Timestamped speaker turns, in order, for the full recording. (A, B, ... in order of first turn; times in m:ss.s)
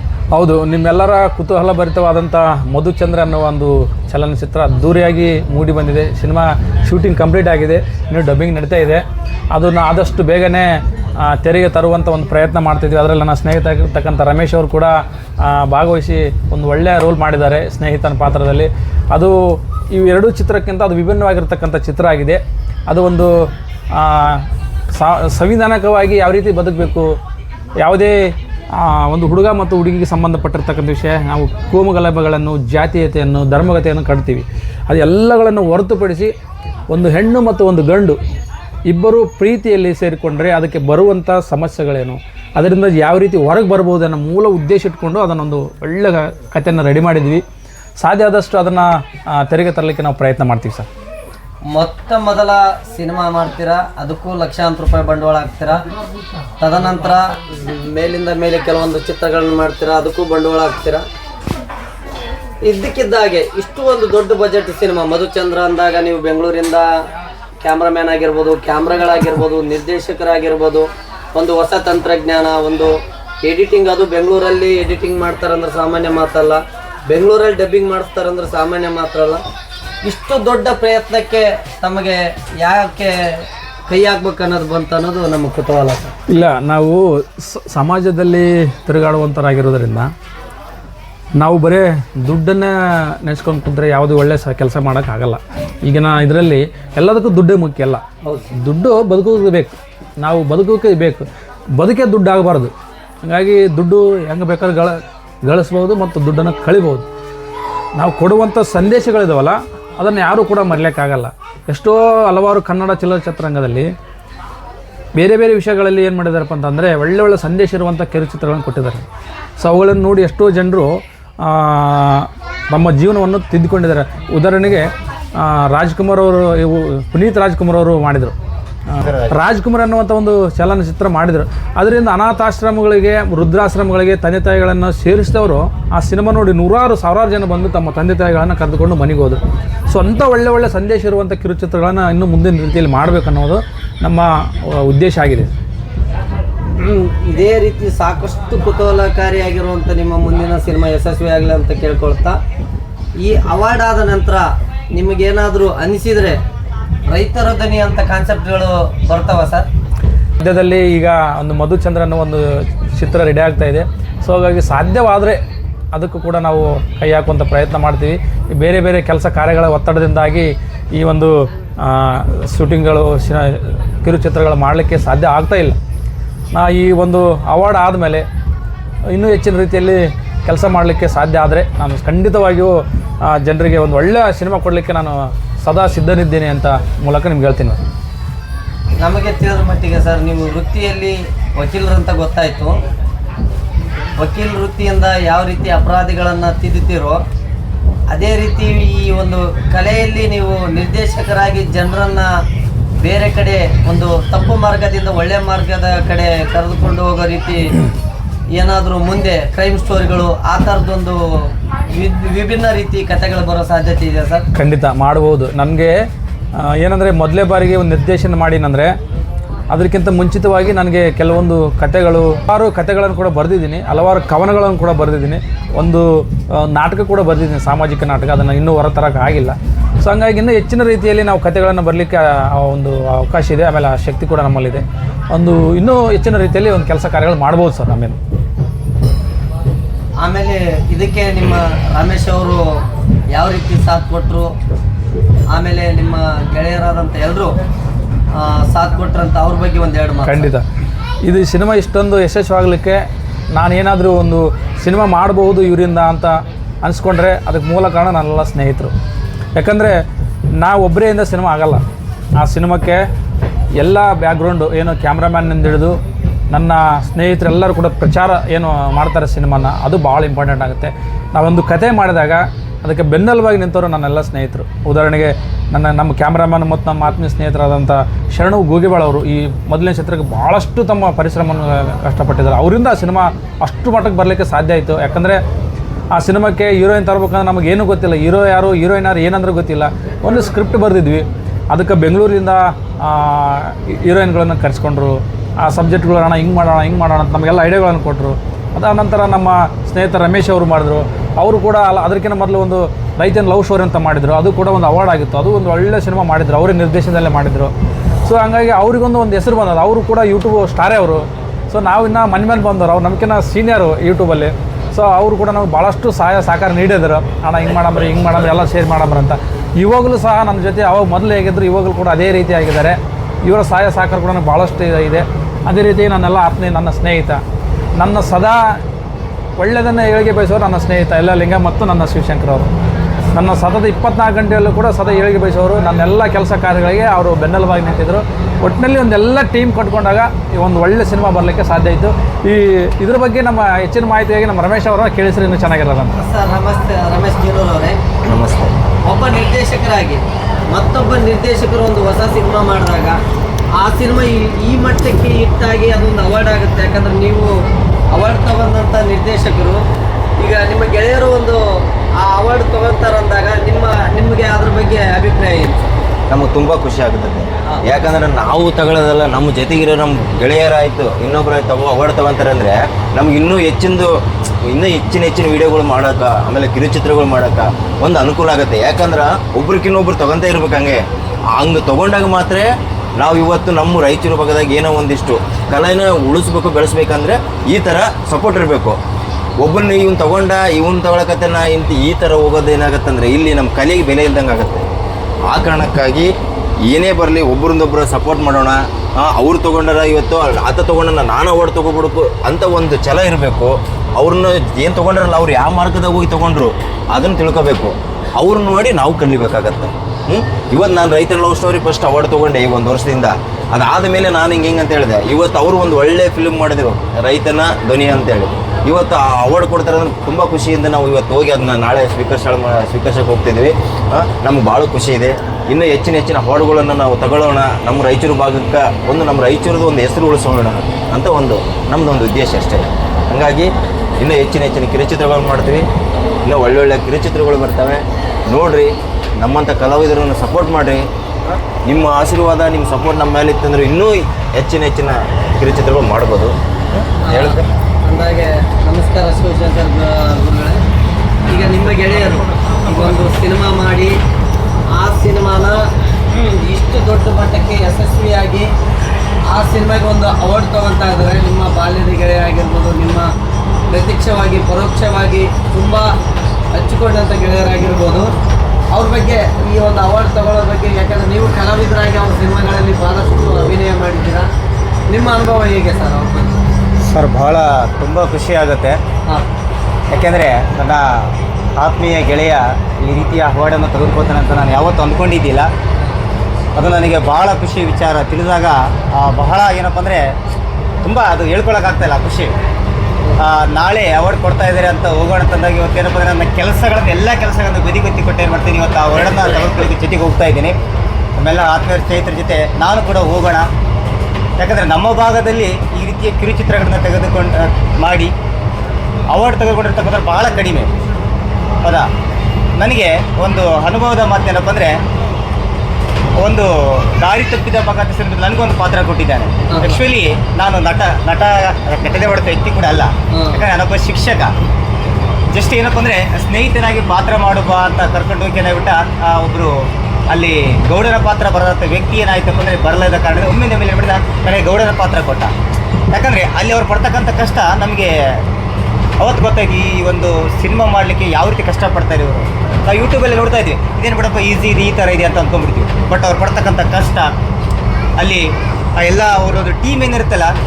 0:00.3-0:10.7 A
0:11.2-0:27.1 A
0:27.8-0:36.3 A
0:36.9-0:38.2 A
0:38.9-0:47.4 A
0:48.0-0:50.9 A
0:51.7-0:55.8 B
0:56.6-1:01.0 B
1:02.6-1:06.9 B
1:07.6-1:12.9 B
1:13.4-1:19.4 B
1:20.0-1:23.2 B
1:23.9-1:26.1 B
1:26.3-1:30.1 A
1:31.4-1:38.0 A
1:38.2-1:38.5 B
1:38.6-1:42.7 A
1:43.2-1:47.1 A
1:48.0-1:53.9 A
1:55.2-1:59.0 A
1:59.6-2:08.3 A
2:08.9-2:25.5 A
2:26.8-2:32.4 B
2:33.2-2:36.4 B
2:37.1-2:39.7 B
2:40.4-2:45.4 A
2:45.9-2:55.8 A
2:56.5-2:58.2 A
2:59.1-3:07.8 A
3:09.0-3:12.7 B
3:14.2-3:17.2 B
3:18.1-3:22.3 B
3:23.0-3:27.7 B
3:28.5-3:31.2 B
3:31.9-3:34.4 B
3:34.5-3:35.9 A
3:36.6-3:38.9 A
3:39.7-3:58.2 A
4:00.2-4:02.6 B
4:03.3-4:04.5 B
4:05.5-4:07.5 B
4:08.3-4:10.4 B
4:10.3-4:10.6 A
4:11.3-4:13.0 A
4:13.5-4:18.9 A
4:19.5-4:20.0 A
4:20.6-4:21.8 A
4:22.4-4:23.0 A
4:23.8-4:26.0 A
4:26.5-4:45.4 A
4:46.1-5:07.7 A
5:08.2-5:27.4 A
5:28.0-5:28.6 A
5:29.6-5:32.7 A
5:33.3-5:46.2 A
5:46.2-5:48.0 B
5:48.3-5:48.7 C
5:49.1-5:53.2 B
5:53.8-5:57.5 B
5:58.1-5:59.8 B
6:00.4-6:01.6 B
6:02.2-6:05.9 B
6:06.3-6:14.1 C
6:14.7-6:21.0 C
6:21.5-6:22.7 C
6:23.2-6:29.0 C
6:29.6-6:34.9 C
6:35.5-6:36.3 C
6:36.8-7:15.8 C
7:16.5-7:21.0 C
7:21.8-7:26.5 C
7:27.2-7:30.8 B
7:27.3-7:27.6 C
7:31.5-7:34.2 B
7:35.0-7:35.8 B
7:36.3-7:38.7 B
7:39.5-7:43.3 B
7:43.9-7:46.1 B
7:46.7-7:48.3 B
7:48.9-7:54.5 B
7:55.1-7:56.6 B
7:57.1-7:59.0 D
8:00.1-8:05.7 D
8:06.8-8:10.3 D
8:11.0-8:12.5 D
8:13.4-8:20.8 D
8:21.4-8:23.7 D
8:24.6-8:28.3 D
8:29.3-8:30.9 D
8:32.8-8:34.9 D
8:36.4-8:44.5 D
8:39.7-8:40.0 B
8:43.3-8:43.6 B
8:45.5-8:49.7 D
8:50.3-8:55.5 D
8:56.1-8:58.1 D
8:59.2-9:07.3 D
9:08.2-9:08.4 D
9:09.0-9:10.5 D